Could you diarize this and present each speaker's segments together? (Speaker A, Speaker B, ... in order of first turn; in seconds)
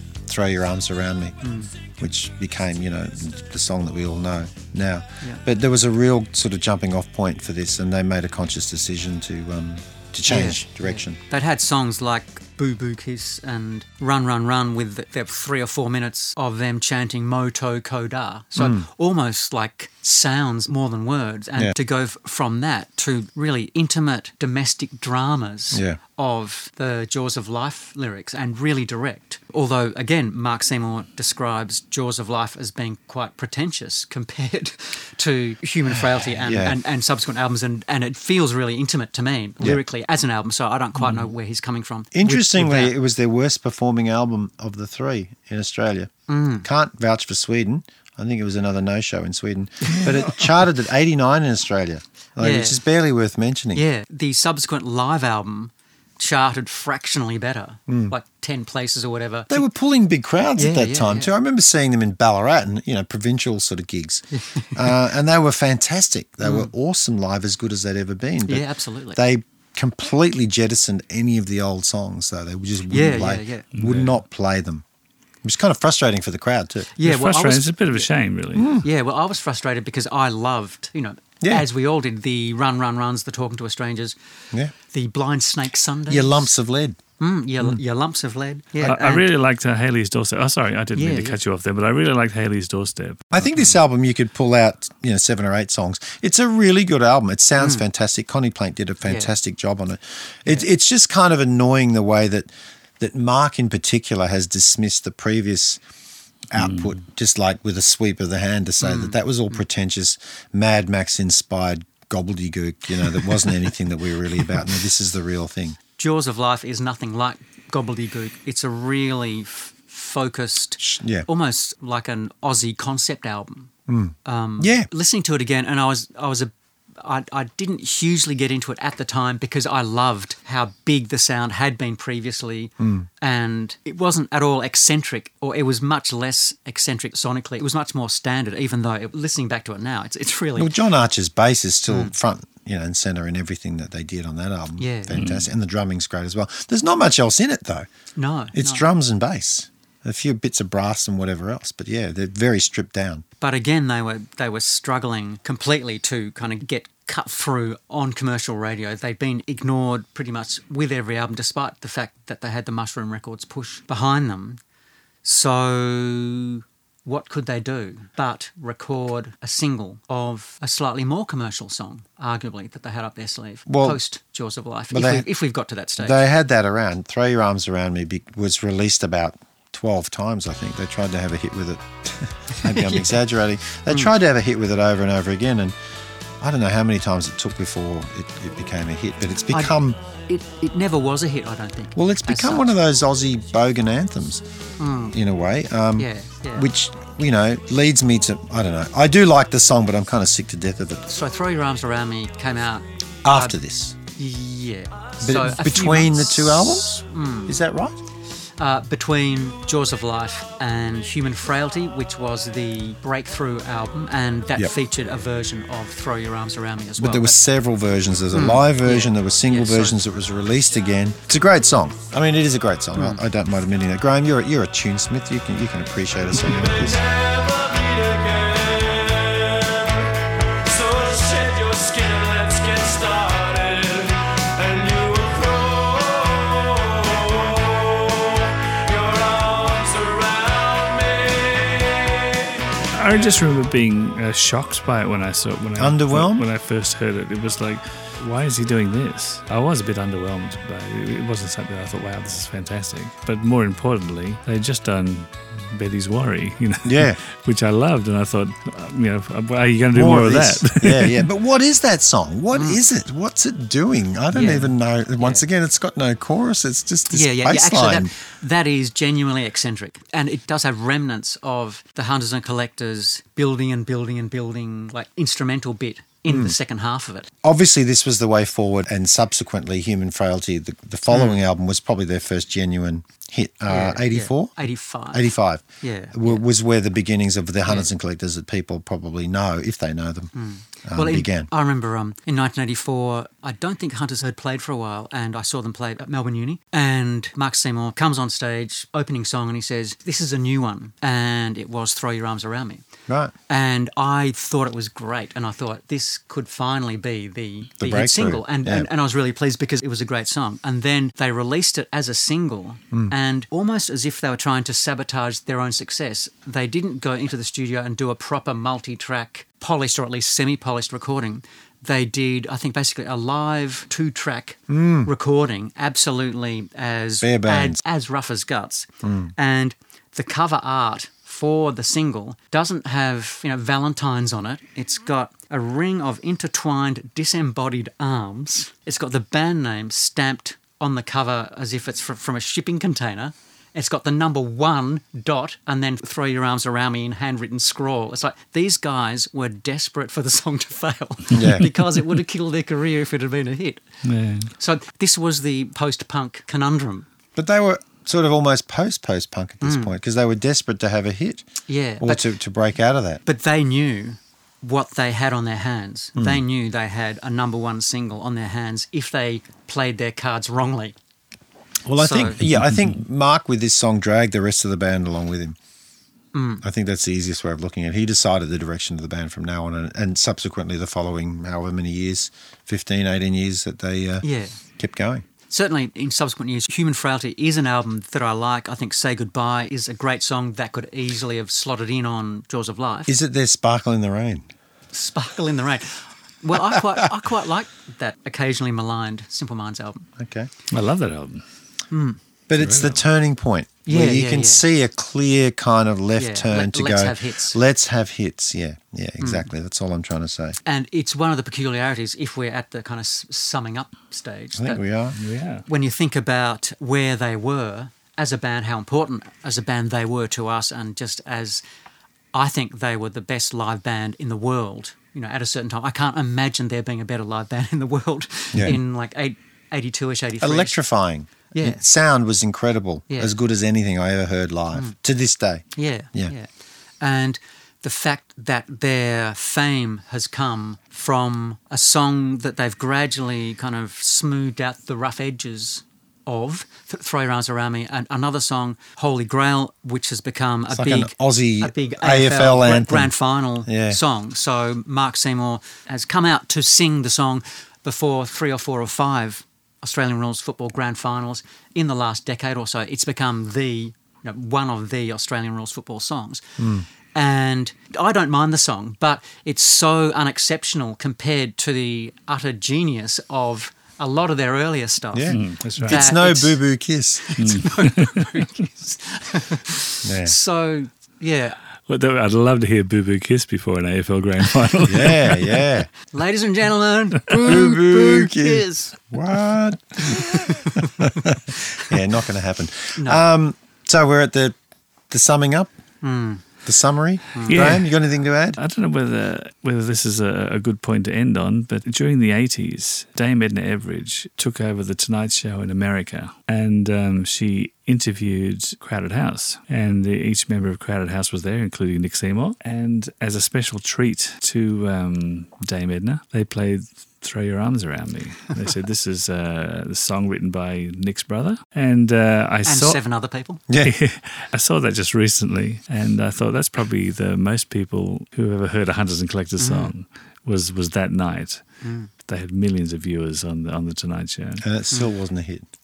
Speaker A: 0.2-1.4, 2.0-11.2, 18.6-18.9, 25.7-26.0, 36.2-36.8, 42.1-46.1, 46.6-53.8, 57.9-58.1, 59.5-74.8, 75.4-76.9, 78.5-78.9, 81.4-81.7, 86.1-87.0, 93.3-105.8, 106.5-115.8, 120.8-121.2, 123.9-124.9, 132.8-133.1, 140.6-147.9, 148.5-153.2, 173.7-174.0, 174.9-175.3, 176.0-185.7, 186.4-190.0, 191.9-194.4, 195.1-201.1, 203.2-204.0, 205.2-208.0, 217.0-227.0, 245.8-246.4, 256.8-257.2, 259.9-268.1, 276.3-276.6, 277.4-284.6, 285.1-290.3, 290.9-291.5, 303.1-303.3, 307.8-308.9, 324.7-325.1, 327.2-327.8, 329.0-329.3, 351.3-351.7, 357.4-361.5, 362.0-363.2, 366.1-366.4, 371.9-375.6, 376.6-384.2, 384.8-385.2, 393.1-394.5, 400.2-400.5, 402.5-410.6, 414.5-415.2, 428.5-428.8, 430.4-436.3, 450.7-453.1, 453.6-454.0, 466.6-466.9, 475.1-477.2, 480.0-480.3, 484.8-485.9, 487.3-494.5, 495.1-495.7, 496.6-498.6, 534.6-535.7
Speaker B: 1.4-1.7, 10.3-42.9, 46.3-46.6, 49.8-50.3, 52.4-52.8, 53.7-59.6, 60.6-61.3, 64.3-64.8, 66.4-66.7, 68.5-69.2, 72.9-73.7, 77.0-78.1, 78.7-84.2, 84.9-86.5, 87.2-89.2, 90.9-91.4, 99.0-99.3, 108.8-109.6, 116.0-123.7, 124.2-140.7, 144.8-145.2, 148.2-148.8, 153.4-164.6, 165.2-176.2, 182.6-183.2, 189.5-192.7, 194.8-195.1, 196.0-196.7, 201.1-203.6, 204.1-207.6, 208.6-217.4, 218.3-220.0, 222.9-223.2, 262.5-262.8, 264.3-265.4, 267.1-277.3, 281.1-281.4, 283.7-286.4, 290.3-302.8, 303.5-353.8, 354.6-357.1, 359.6-359.9, 361.7-362.3, 363.2-370.9, 371.9-372.4, 376.3-376.6, 384.2-384.6, 385.5-393.1, 394.9-400.1, 401.9-402.2, 403.9-404.6, 406.2-407.6, 409.2-409.5, 410.6-414.8, 415.7-421.6, 422.3-430.8, 431.5-431.8, 435.8-436.5, 437.0-466.4, 467.1-476.6, 477.2-481.6, 486.1-489.0, 490.0-491.1, 492.9-493.2, 496.0-496.4, 497.3-497.8, 522.6-523.6, 529.6-529.9, 531.8-532.1
Speaker C: 41.0-41.2, 73.7-74.2, 77.0-78.7, 88.8-93.2, 106.5-106.9, 145.1-145.5, 242.9-261.3, 351.3-351.6, 354.0-354.5, 400.7-401.4, 402.6-403.0, 415.1-415.6, 475.3-476.0, 477.4-478.4, 481.9-485.6, 497.5-498.0, 498.6-523.0, 523.8-534.6
Speaker D: 226.3-242.8